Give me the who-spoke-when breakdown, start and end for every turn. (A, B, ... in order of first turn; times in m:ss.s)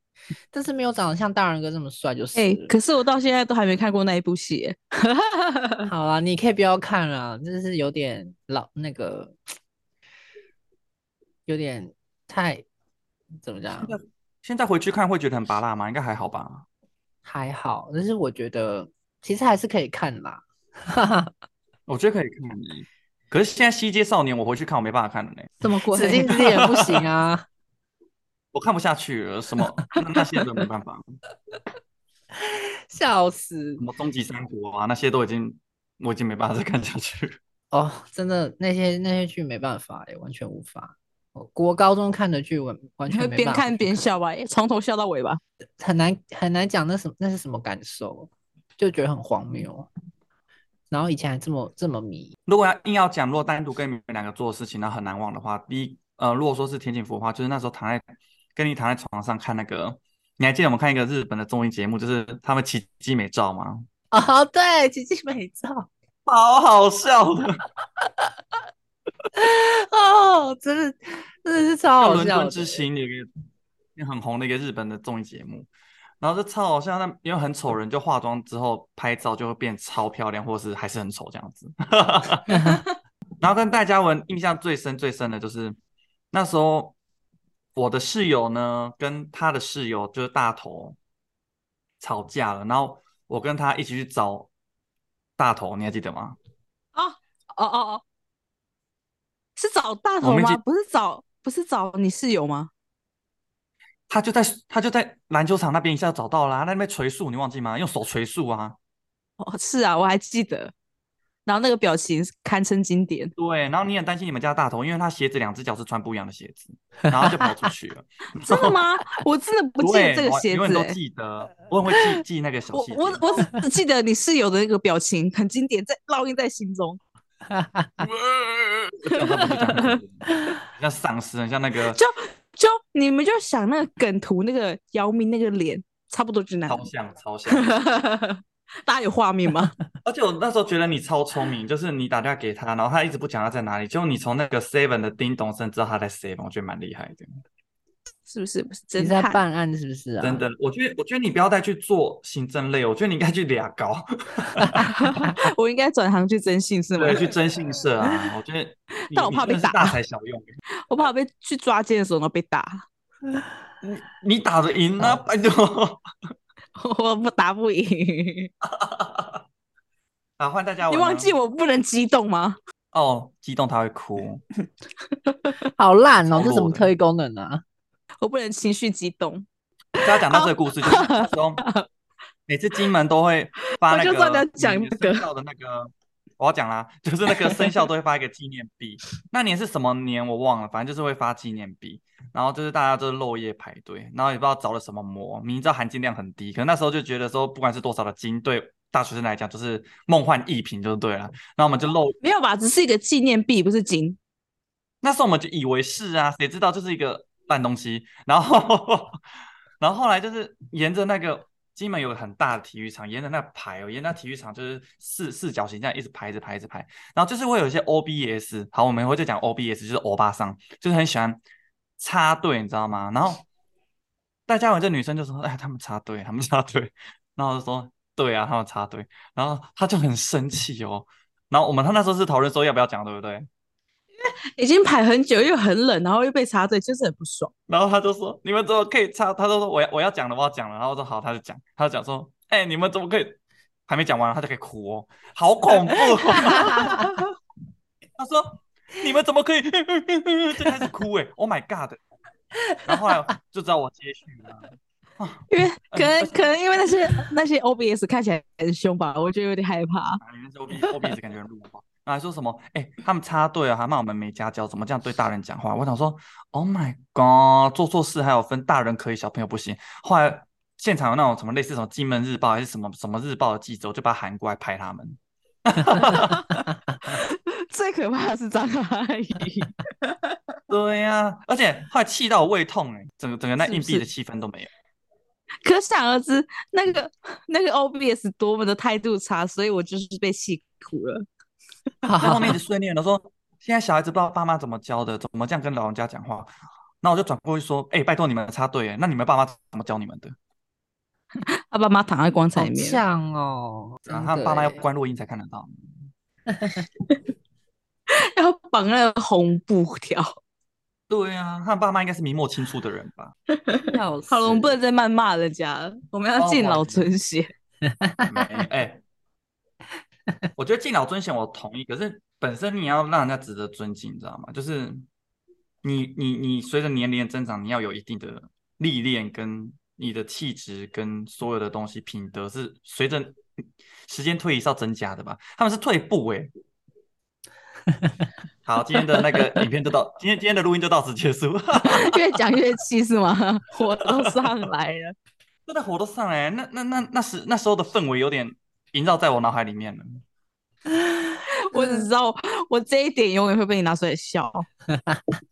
0:00.5-0:02.7 A
0:02.3-0:05.9 B
0:05.9-0:09.4 A
0:11.5-0:12.6 A
0:13.4-0:14.0 A
0:14.4-0:16.6 C
0:17.2-0:21.3 A
0:21.9-0:25.5 C
0:25.6-0:26.5 B
0:25.9-0:27.4 A
0:26.3-0:27.0 C
0:28.5-0:31.1 C
0:32.4-0:33.8 A
0:33.8-0:37.4 C
0:37.7-0:44.1 A
0:43.1-0:45.4 B
0:45.8-0:49.9 A
0:50.9-0:52.3 A
0:52.5-1:03.8 C
1:04.1-1:05.9 A
1:06.2-1:07.6 C
1:09.3-1:12.8 A
1:12.0-1:13.3 C
1:14.0-1:15.7 C
1:16.2-1:22.6 C
1:22.5-1:22.8 A
1:23.4-1:25.8 C
1:26.3-1:27.0 C
1:27.7-1:31.0 C
1:32.0-1:34.5 C
1:35.4-1:36.4 C
1:36.9-1:38.0 B
1:39.6-1:42.7 B
1:40.2-1:40.6 C
1:44.1-1:48.8 C
1:49.4-1:50.7 B
1:51.4-1:53.3 B
1:53.4-1:58.8 C
1:58.4-2:01.0 B
1:59.8-2:03.2 C
2:02.7-2:07.0 B
2:07.5-2:08.1 A
2:08.0-2:10.0 B
2:09.0-2:12.0 C
2:11.9-2:16.9 B
2:16.6-2:17.7 C
2:17.5-2:19.7 B
2:20.0-2:27.4 C
2:28.3-2:29.4 B
2:29.0-2:30.4 A
2:30.2-2:34.9 C
2:34.9-2:37.3 B
2:37.0-2:40.5 C
2:39.1-2:40.0 B
2:40.9-2:42.8 B
2:43.8-2:46.0 C
2:46.8-2:48.5 B
2:48.6-2:49.4 C
2:50.4-2:51.3 C
2:50.9-2:52.6 B
2:52.9-2:54.4 C
2:55.2-2:55.5 B
2:55.8-2:57.6 A
2:56.3-2:56.9 C
2:58.2-2:59.4 B
3:00.0-3:01.8 B
3:00.0-3:01.6 C
3:02.5-3:22.2 C
3:03.8-3:05.2 B
3:07.3-3:07.8 B
3:22.2-3:24.2 B
3:25.0-3:29.2 C
3:29.8-3:41.4 C
3:42.0-3:43.4 C
3:44.5-3:53.5 C
3:54.2-3:57.5 B
3:57.7-4:07.0 C
4:06.5-4:07.0 A
4:06.8-4:07.2 B
4:08.2-4:12.0 C
4:12.8-4:16.4 C
4:15.5-4:20.2 B
4:20.2-4:36.5 C
4:37.0-4:40.4 B
4:40.7-4:44.7 C
4:43.6-4:44.0 B
4:45.6-4:51.2 B
4:52.0-4:52.5 A
4:52.2-5:00.4 C
5:01.4-5:03.0 B
5:02.6-5:04.8 A
5:04.0-5:06.1 C
5:06.6-5:06.8 A
5:08.2-5:10.4 B
5:11.1-5:13.4 C
5:13.5-5:17.5 B
5:13.8-5:14.8 A
5:16.4-5:17.0 C
5:17.8-5:18.6 A
5:18.3-5:19.0 C
5:20.6-5:25.1 C
5:25.8-5:33.4 C
5:34.0-5:36.5 C
5:38.6-5:42.4 C
5:41.8-5:45.1 B
5:44.0-5:44.6 C
5:45.7-5:50.2 C
5:50.9-5:52.0 A
5:51.7-5:54.7 B